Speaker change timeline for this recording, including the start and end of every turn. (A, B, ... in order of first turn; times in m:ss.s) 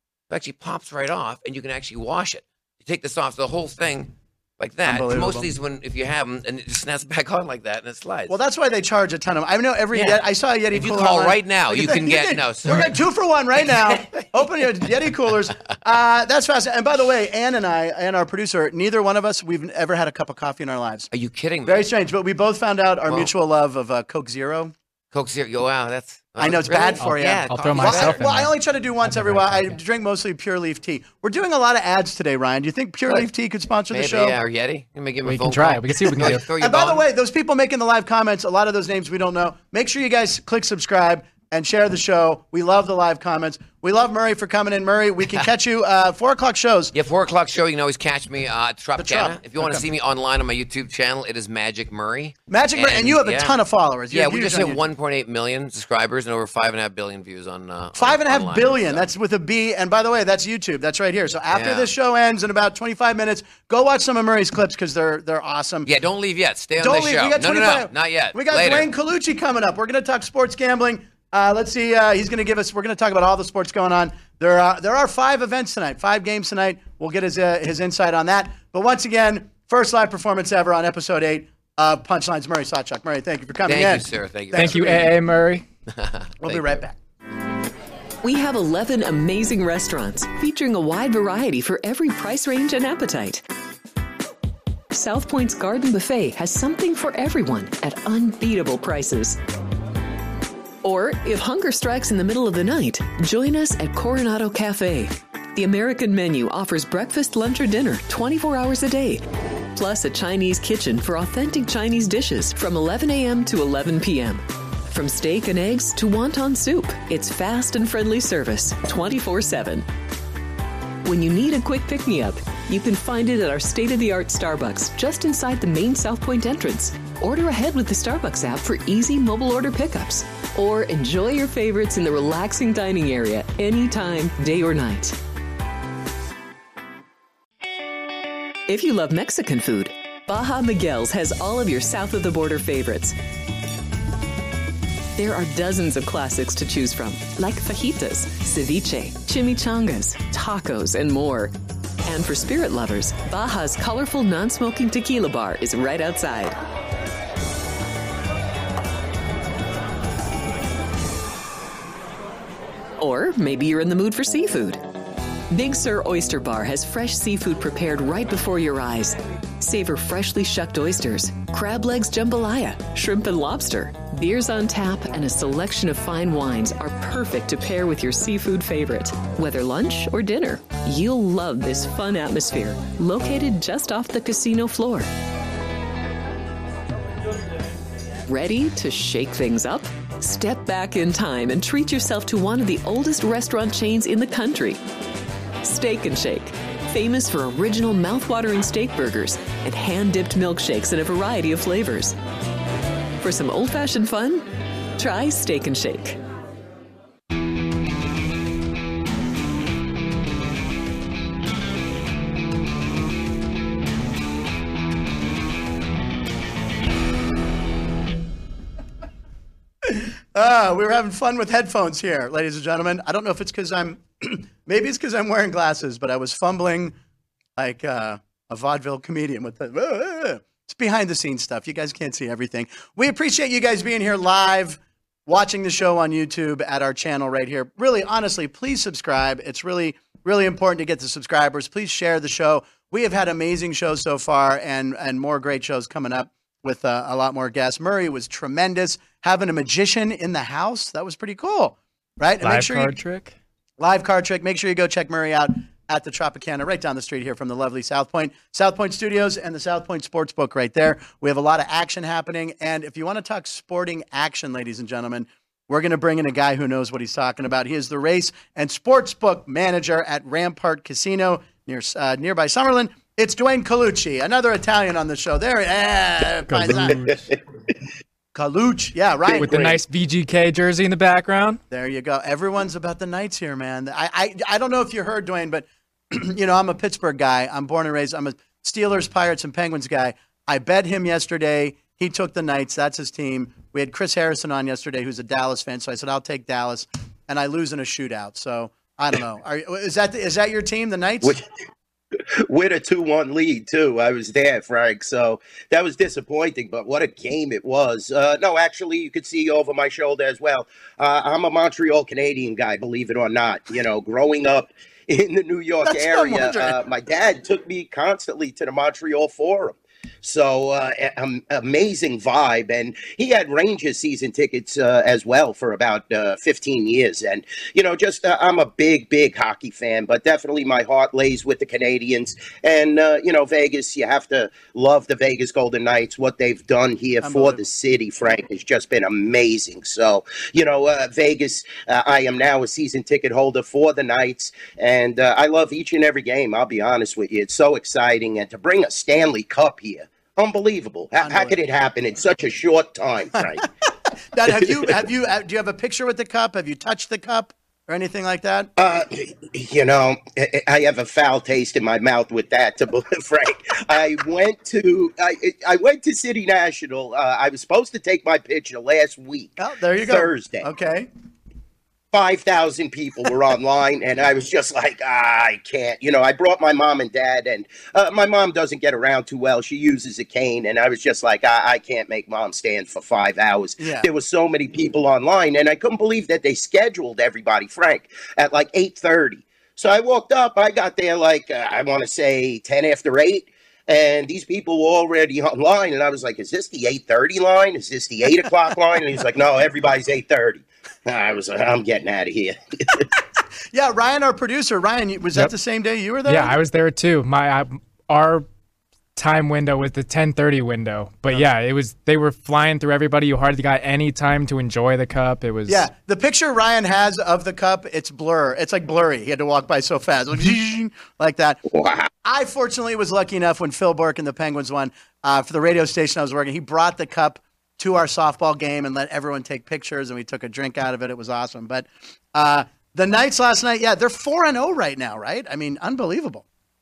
0:00.3-0:08.3 A
0:04.8-0:05.5 B
0:08.3-0:21.1 B
0:09.9-0:13.0 A
0:13.6-0:14.2 A
0:21.1-0:21.9 A
0:21.6-0:24.7 B
0:25.1-0:28.2 A
0:26.4-0:34.4 B
0:27.0-0:29.7 C
0:33.9-0:37.0 A
0:35.2-0:36.4 C
0:36.2-0:46.9 B
0:46.9-0:53.6 A
0:49.0-0:49.8 B
0:52.5-0:54.8 B
0:54.1-0:59.1 A
0:58.0-1:05.9 B
1:01.5-1:01.9 A
1:05.8-1:08.9 A
1:06.8-1:25.1 B
1:23.6-1:25.2 A
1:24.5-1:25.6 C
1:25.9-1:26.8 A
1:26.4-1:27.0 B
1:28.2-1:33.4 D
1:34.9-1:39.4 D
1:40.8-1:49.2 D
1:49.7-1:59.9 D
2:01.0-2:15.2 D
2:18.7-2:23.1 D
2:25.2-2:31.5 D
2:32.0-2:36.6 D
2:43.0-2:44.8 D
2:45.5-3:05.1 D
3:08.3-3:14.8 D
3:15.6-3:22.2 D
3:23.2-3:24.4 D
3:25.0-3:26.2 D
3:39.8-3:47.0 B
3:47.6-4:13.0 B
4:12.4-4:13.3 C
4:13.8-4:37.2 B
4:36.5-4:37.2 C
4:38.3-4:39.6 B
4:39.2-4:39.8 E
4:39.4-4:41.6 C
4:41.7-5:01.4 B
5:02.4-5:53.7 E
5:15.8-5:16.8 B
5:37.2-5:37.6 B
5:51.2-5:51.5 B
5:54.3-5:58.7 B
5:58.8-6:10.7 E
6:09.6-6:11.1 B
6:12.1-6:43.1 E
6:23.8-6:24.1 B
6:43.7-6:46.6 B
6:46.3-6:48.4 C
6:49.2-6:55.8 C
6:55.7-7:01.6 B
7:01.7-7:02.1 E
7:02.2-7:16.4 B